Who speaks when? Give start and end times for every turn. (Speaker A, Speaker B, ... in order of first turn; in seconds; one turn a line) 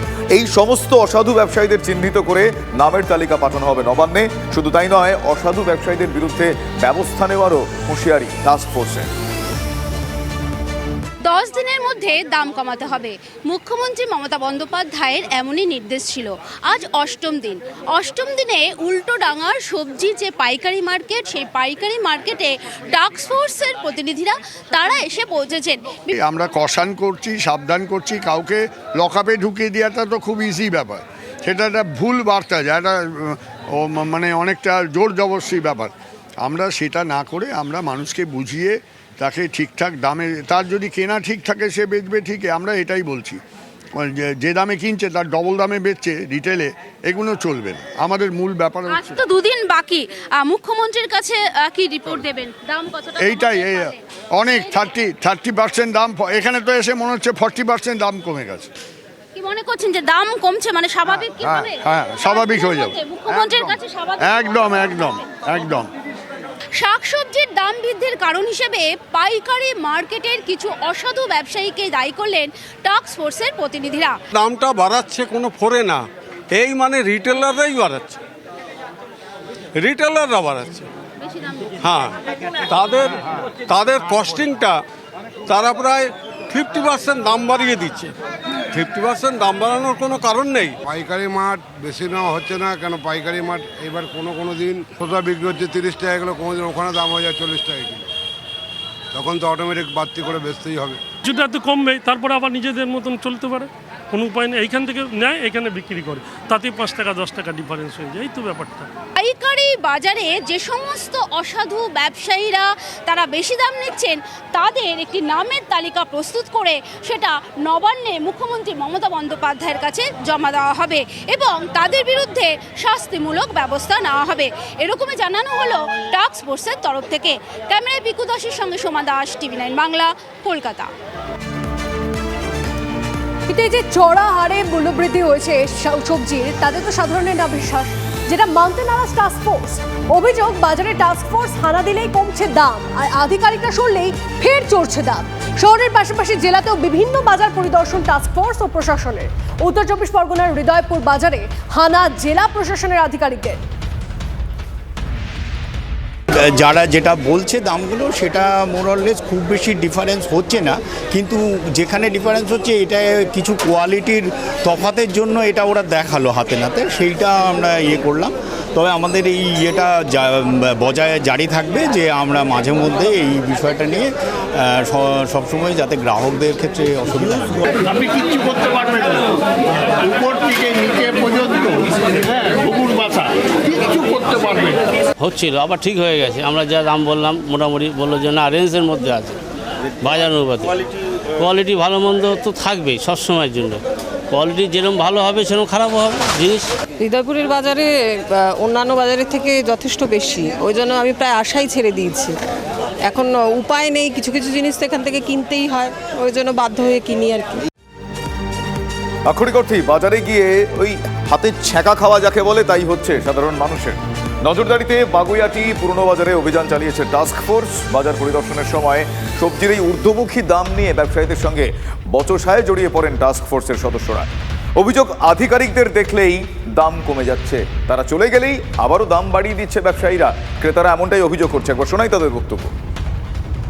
Speaker A: 0.3-9.1
Speaker B: 11.2-26.1
Speaker C: 26.1-43.4
Speaker C: 44.0-49.1
Speaker B: 48.9-54.0
Speaker C: 53.2-58.7
Speaker B: 59.3-64.9
Speaker C: 61.1-65.9
Speaker B: 66.8-74.2
Speaker D: 74.3-78.2
Speaker D: 79.8-80.9
Speaker D: 81.8-82.2
Speaker D: 82.7-84.8
Speaker D: 85.5-88.1
Speaker D: 88.7-90.8
Speaker E: 90.8-98.1
Speaker E: 99.1-101.0
Speaker F: 101.2-108.9
Speaker B: 109.2-130.9
Speaker G: 133.5-153.6
Speaker H: 156.3-177.7
Speaker I: 178.0-179.2
Speaker I: 180.0-183.3
Speaker I: 183.8-184.8
Speaker J: 185.2-189.4
Speaker J: 190.0-190.8
Speaker J: 191.4-193.8
Speaker J: 194.3-196.7
Speaker K: 197.0-202.3
Speaker K: 203.0-207.6
Speaker A: 209.3-232.7